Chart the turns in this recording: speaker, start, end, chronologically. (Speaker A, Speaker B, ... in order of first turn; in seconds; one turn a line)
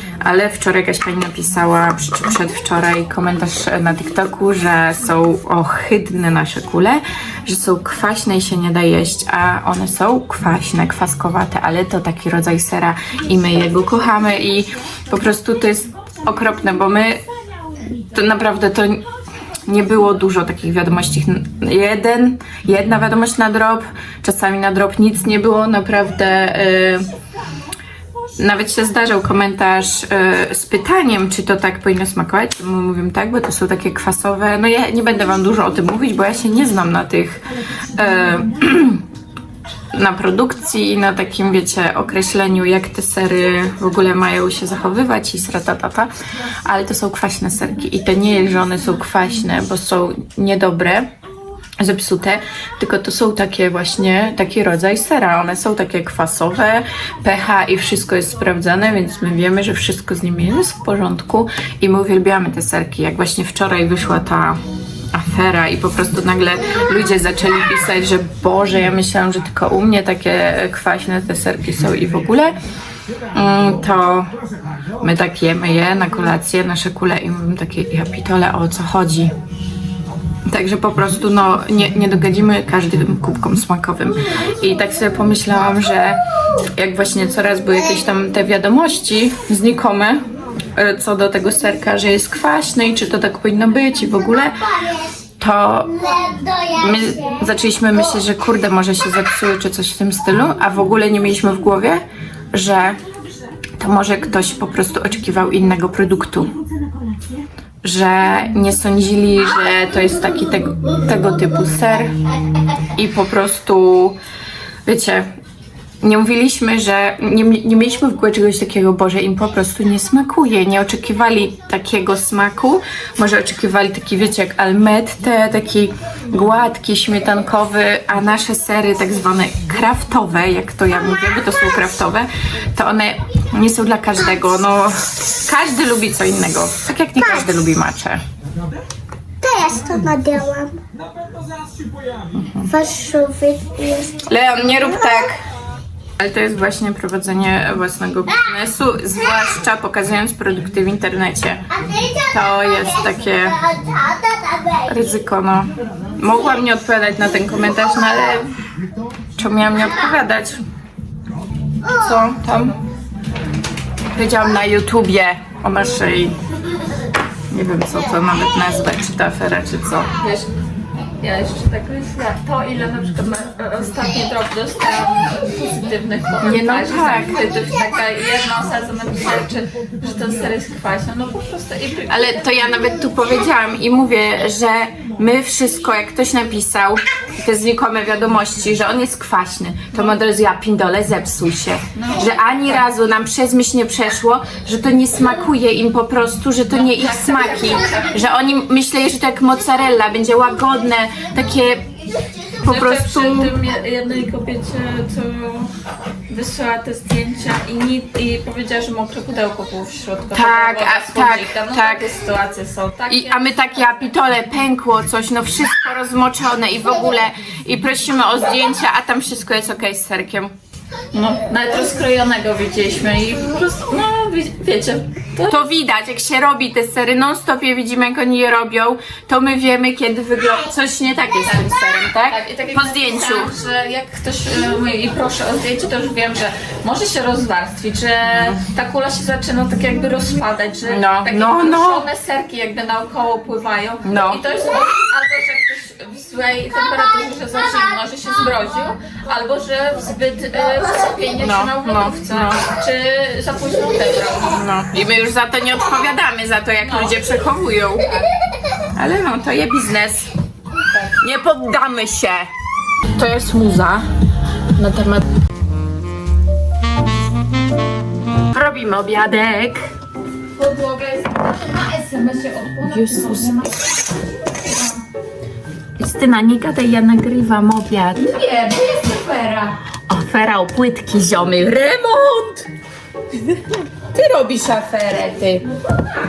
Speaker A: 0.2-17.2
Speaker A: 18.1-19.1
Speaker A: 19.6-27.1
Speaker A: 28.4-37.4
Speaker A: 37.9-39.0
Speaker A: 39.9-46.1
Speaker A: 46.6-51.1
Speaker A: 51.8-64.6
Speaker A: 65.1-72.5
Speaker A: 73.3-74.4
Speaker A: 75.0-79.3
Speaker A: 80.5-90.2
Speaker A: 90.8-94.7
Speaker A: 95.4-96.1
Speaker B: 96.0-97.2
Speaker A: 96.7-103.0
Speaker A: 103.8-106.5
Speaker A: 107.8-112.2
Speaker A: 112.9-114.2
Speaker A: 114.8-115.3
Speaker A: 116.0-138.2
Speaker B: 139.4-140.8
Speaker A: 142.3-142.7
Speaker B: 142.7-144.2
Speaker A: 144.3-145.4
Speaker A: 146.2-151.7
Speaker B: 151.8-152.7
Speaker A: 152.3-153.6
Speaker B: 153.7-154.8
Speaker A: 154.8-158.5
Speaker A: 159.4-160.6
Speaker A: 161.8-162.8
Speaker A: 164.1-166.4
Speaker A: 167.5-170.1
Speaker C: 170.2-170.5
Speaker C: 171.2-182.4
Speaker A: 176.4-177.4
Speaker A: 182.1-201.9
Speaker C: 191.9-192.8
Speaker C: 196.7-198.1
Speaker A: 202.6-203.5
Speaker C: 202.6-205.7
Speaker C: 206.3-214.1
Speaker A: 210.3-212.1
Speaker A: 213.1-220.5
Speaker C: 221.1-225.6
Speaker A: 225.5-233.5
Speaker C: 231.6-254.6
Speaker A: 240.9-242.1
Speaker A: 244.0-244.4
Speaker A: 251.4-252.7
Speaker A: 254.5-258.2
Speaker C: 256.8-257.1
Speaker A: 258.9-260.3
Speaker A: 261.2-262.5
Speaker A: 263.1-264.1
Speaker A: 264.8-265.2
Speaker A: 268.5-269.8
Speaker C: 270.6-273.7
Speaker A: 272.9-273.7
Speaker A: 276.0-278.3
Speaker C: 278.2-279.8
Speaker A: 280.1-282.7
Speaker A: 284.1-285.7